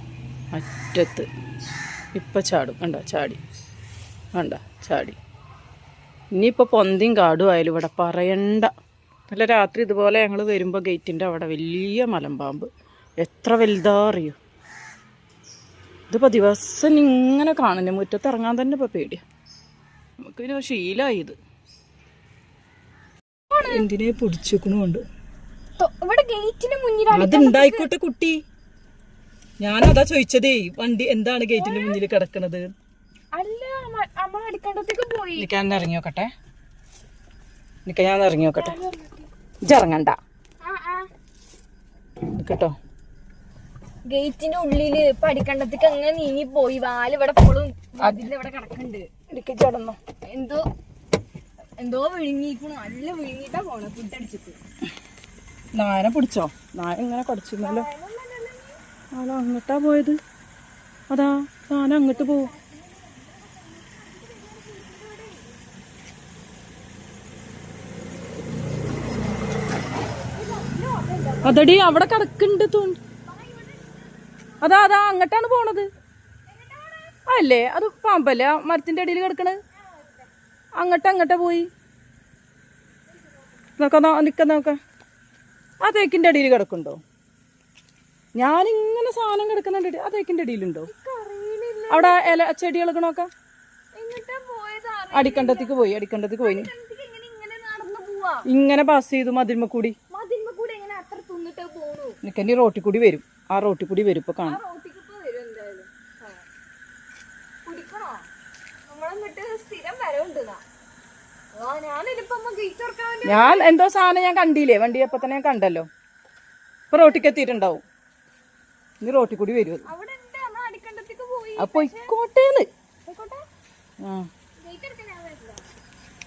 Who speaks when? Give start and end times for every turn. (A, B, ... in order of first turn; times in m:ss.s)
0:00.5-0:01.3 A
0:02.1-0:03.4 A
0:04.3-0:05.2 A
0:06.3-0:08.7 A
0:09.3-0:14.4 A
0:16.1-0:19.2 A
0:20.2-0:21.4 A
0:23.5-0:23.8 B
0:23.6-0:25.0 A
0:25.8-0:27.9 B
0:27.1-0:28.4 A
0:29.6-0:32.7 A
0:31.5-0:32.0 B
0:33.3-0:35.5 B
0:35.4-0:36.3 A
0:37.9-0:38.8 A
0:38.6-0:39.1 B
0:39.7-0:40.2 A
0:40.6-0:41.1 B
0:42.3-0:42.8 A
0:44.1-0:49.1 B
0:49.3-0:50.0 A
0:50.3-0:50.7 B
0:51.8-0:54.6 B
0:55.7-0:57.9 A
0:57.6-0:58.8 B
0:59.1-1:00.2 A
1:01.1-1:02.5 A
1:02.1-1:05.6 B
1:10.1-1:11.8 B
1:11.4-1:13.0 A
1:13.2-1:14.7 B
1:14.6-1:15.9 A
1:16.5-1:17.2 B
1:17.3-1:19.6 A
1:19.9-1:20.2 B
1:20.8-1:21.7 A
1:23.8-1:24.8 A
1:25.8-1:27.0 A
1:28.4-1:30.9 A
1:30.9-1:32.4 B
1:31.9-1:33.3 A
1:33.9-1:35.8 B
1:35.1-1:36.7 A
1:36.4-1:38.4 B
1:38.5-1:40.0 A
1:40.1-1:42.2 B
1:42.2-1:44.6 A
1:44.4-1:46.4 B
1:47.7-1:48.3 B
1:48.9-1:50.6 B
1:51.5-1:53.7 B
1:53.2-1:55.9 A
1:56.9-1:57.8 A
1:59.0-1:59.9 A
1:59.8-2:02.2 B
2:01.6-2:02.7 A
2:03.1-2:03.4 B
2:04.0-2:04.3 A
2:04.6-2:05.6 B